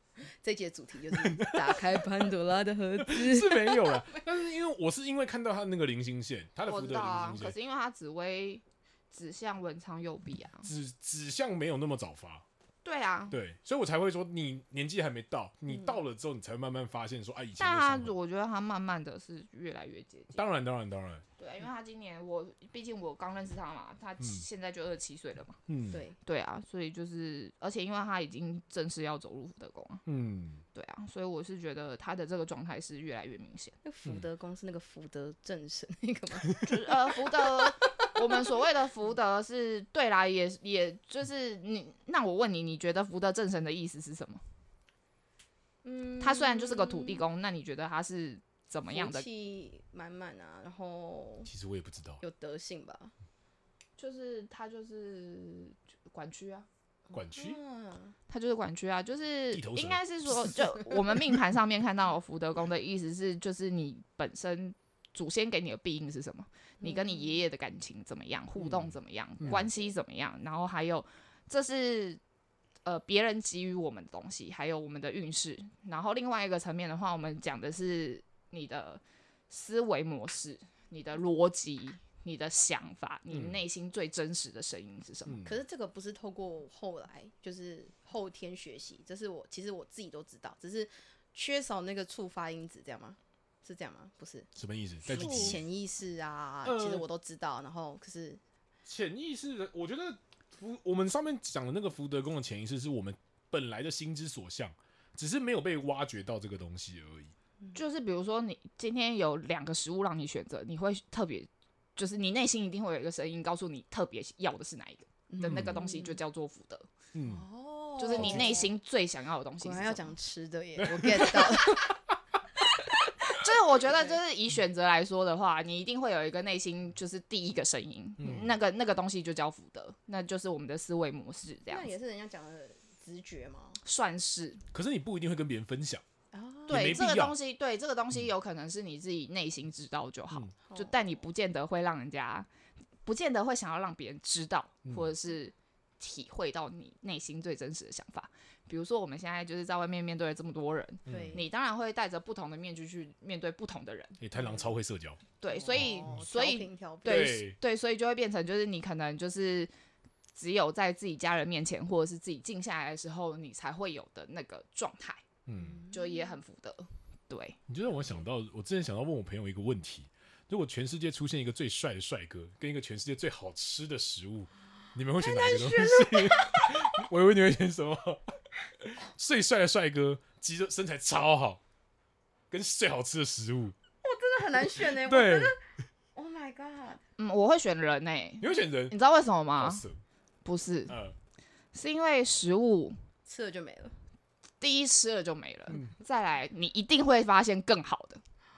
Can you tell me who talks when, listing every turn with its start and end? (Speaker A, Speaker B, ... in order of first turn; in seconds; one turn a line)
Speaker A: 0.2-4.2
Speaker B: 1.1-2.0
Speaker B: 3.0-7.5
Speaker C: 6.7-10.7
Speaker B: 10.6-12.4
Speaker C: 12.8-13.3
Speaker B: 13.3-18.1
Speaker A: 15.7-16.0
Speaker C: 17.6-20.4
Speaker B: 20.3-21.2
Speaker C: 21.4-25.6
Speaker B: 25.7-26.0
Speaker A: 25.9-26.1
Speaker C: 26.2-30.0
Speaker B: 30.1-30.6
Speaker C: 30.7-33.8
Speaker A: 33.8-38.5
Speaker C: 36.6-44.4
Speaker A: 45.8-47.2
Speaker C: 46.2-49.2
Speaker A: 48.9-51.5
Speaker B: 51.5-52.2
Speaker A: 52.2-53.1
Speaker C: 54.0-56.7
Speaker B: 57.1-57.6
Speaker A: 57.3-58.1
Speaker C: 58.3-72.2
Speaker B: 59.5-61.2
Speaker A: 66.8-67.3
Speaker B: 68.6-69.7
Speaker C: 72.8-85.4
Speaker B: 83.3-83.6
Speaker B: 85.2-85.6
Speaker A: 85.4-94.5
Speaker B: 94.5-95.6
Speaker A: 95.0-98.4
Speaker C: 95.1-95.6
Speaker B: 96.6-97.0
Speaker B: 98.8-107.3
Speaker C: 107.7-116.9
Speaker A: 115.3-116.2
Speaker B: 115.4-115.8
Speaker B: 117.1-117.4
Speaker A: 117.2-118.7
Speaker C: 118.0-120.0
Speaker B: 118.1-118.6
Speaker A: 119.6-122.0
Speaker B: 120.8-121.9
Speaker C: 123.2-131.9
Speaker A: 123.8-124.2
Speaker B: 128.2-128.5
Speaker A: 131.7-133.8
Speaker C: 133.8-134.6
Speaker B: 134.7-136.0
Speaker A: 136.3-137.0
Speaker B: 136.7-137.3
Speaker C: 136.7-142.5
Speaker A: 140.7-141.0
Speaker C: 143.0-154.2
Speaker B: 144.8-145.1
Speaker B: 151.1-151.4
Speaker A: 151.1-151.4
Speaker B: 154.2-155.2
Speaker A: 154.3-154.7
Speaker C: 155.4-159.7
Speaker A: 155.5-157.4
Speaker B: 155.7-156.2
Speaker B: 157.0-157.6
Speaker C: 160.3-165.2
Speaker B: 165.4-165.8
Speaker A: 165.6-166.4
Speaker C: 165.9-167.6
Speaker B: 167.7-181.6
Speaker A: 175.2-177.0
Speaker B: 182.5-183.7
Speaker A: 184.0-185.6
Speaker B: 184.6-185.6
Speaker A: 186.1-187.0
Speaker C: 187.2-189.8
Speaker B: 188.4-188.9
Speaker B: 189.6-190.0
Speaker C: 190.4-190.9
Speaker B: 190.9-191.1
Speaker C: 191.7-193.0
Speaker A: 193.2-194.0
Speaker C: 194.6-198.2